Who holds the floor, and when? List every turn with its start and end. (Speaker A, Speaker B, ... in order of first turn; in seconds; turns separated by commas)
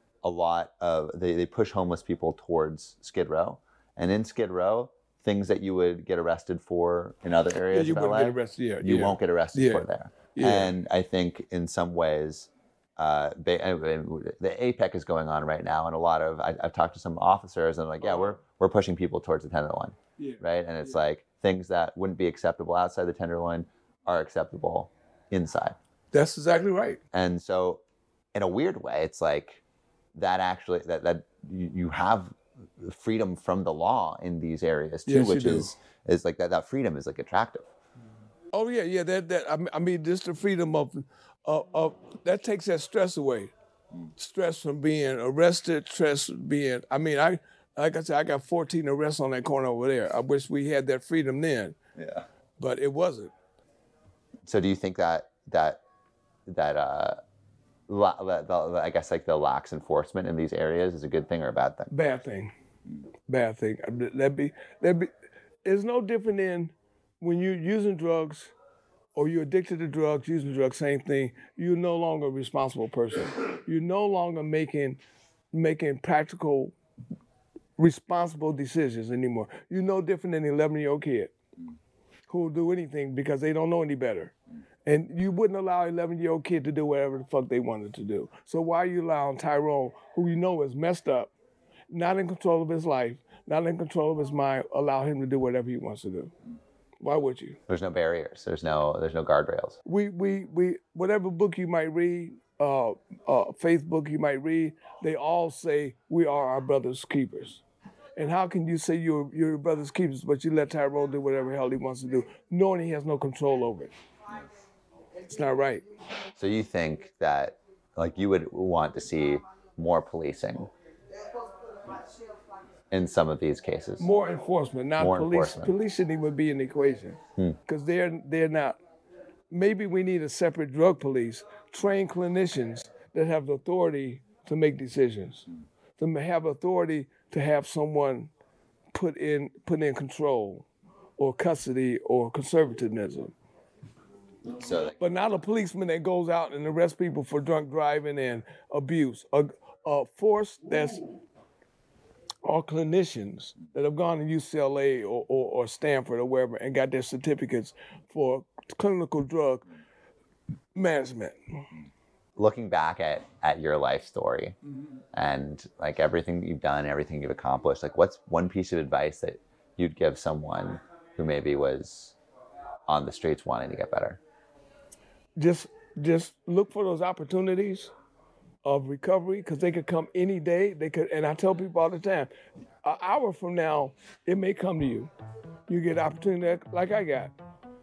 Speaker A: 0.2-25.8, Speaker B: 7.7-10.8, Speaker B: 20.2-20.9, Speaker B: 26.1-27.0, Speaker A: 27.1-27.8, Speaker A: 28.4-29.6, Speaker A: 30.1-37.7, Speaker B: 35.1-35.7, Speaker B: 38.5-43.5, Speaker B: 44.2-51.8, Speaker A: 52.0-52.2, Speaker B: 52.6-53.3, Speaker A: 54.5-55.8, Speaker A: 56.5-57.2, Speaker A: 57.9-61.9, Speaker B: 61.9-62.5, Speaker B: 63.3-65.1, Speaker B: 65.6-68.5, Speaker B: 69.2-75.0, Speaker B: 75.5-76.7, Speaker B: 77.8-81.3, Speaker B: 82.3-84.3, Speaker B: 84.8-91.3, Speaker B: 91.9-96.3, Speaker B: 97.0-97.6, Speaker A: 97.7-99.8, Speaker B: 99.8-107.6, Speaker B: 108.2-113.9, Speaker B: 115.3-115.8, Speaker A: 116.4-120.7, Speaker A: 122.9-124.1, Speaker B: 124.0-128.8, Speaker A: 125.0-125.7, Speaker B: 129.5-135.5, Speaker B: 136.0-138.3, Speaker B: 138.9-140.7, Speaker B: 141.2-143.3, Speaker A: 144.5-145.0, Speaker B: 145.0-151.0, Speaker B: 152.4-159.7, Speaker B: 160.8-161.4, Speaker A: 162.4-164.6, Speaker A: 165.1-172.2, Speaker A: 172.9-174.2, Speaker B: 175.4-177.9, Speaker B: 178.7-182.3, Speaker B: 182.8-185.1, Speaker B: 185.7-187.3